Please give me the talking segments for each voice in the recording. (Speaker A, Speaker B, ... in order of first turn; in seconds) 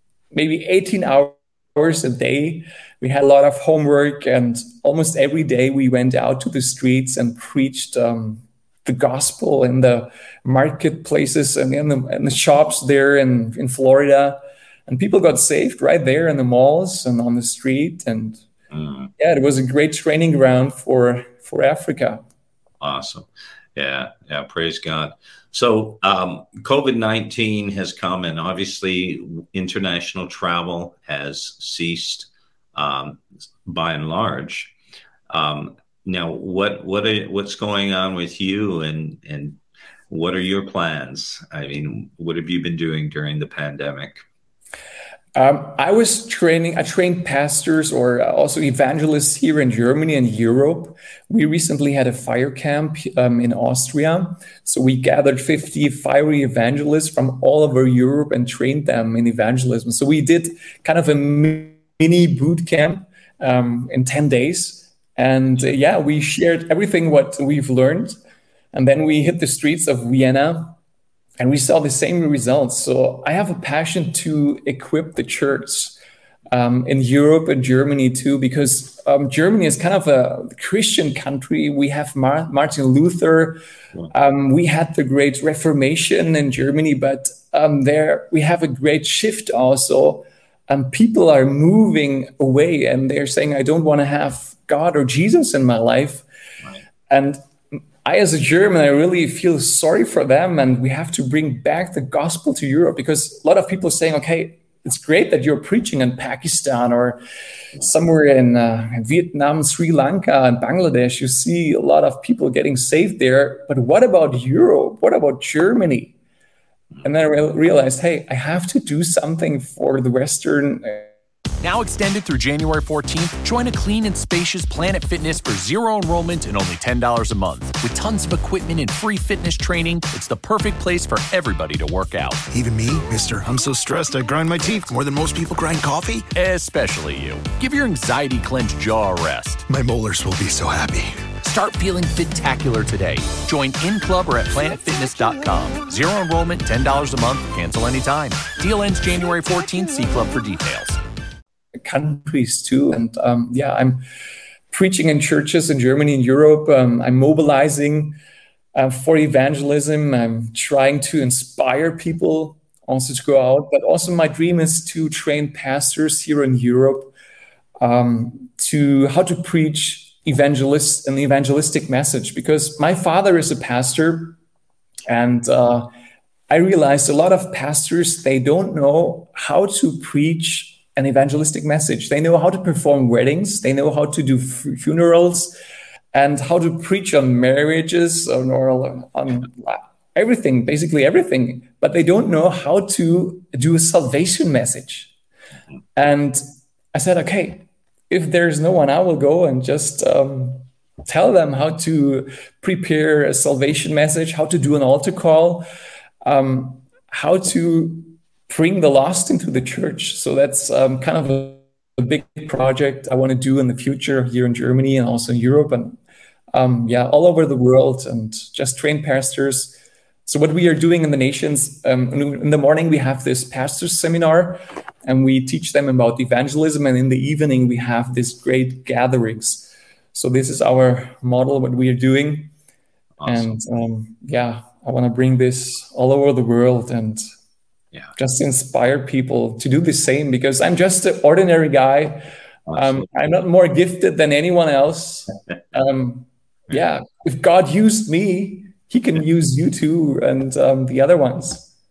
Speaker A: 0.3-18.4, 19.2-22.2, 45.4-68.2, 68.7-70.8, 71.4-76.0, 76.5-96.2, 97.1-97.4, 98.0-107.2, 107.8-116.1, 117.0-121.1, 151.8-154.0, 154.7-158.2, 158.8-167.1, 167.8-174.4, 175.1-175.9, 176.5-185.5, 186.1-195.1, 195.9-196.4, 196.9-205.7, 206.2-216.0, 216.5-232.5, 233.2-237.2, 238.2-251.7
Speaker B: 18.7-19.1, 22.8-34.7, 35.3-39.6, 40.1-44.2, 233.2-233.6, 242.7-243.1
Speaker C: 121.6-132.4, 136.3-139.7, 141.4-151.0
Speaker D: 132.5-136.3, 139.7-141.2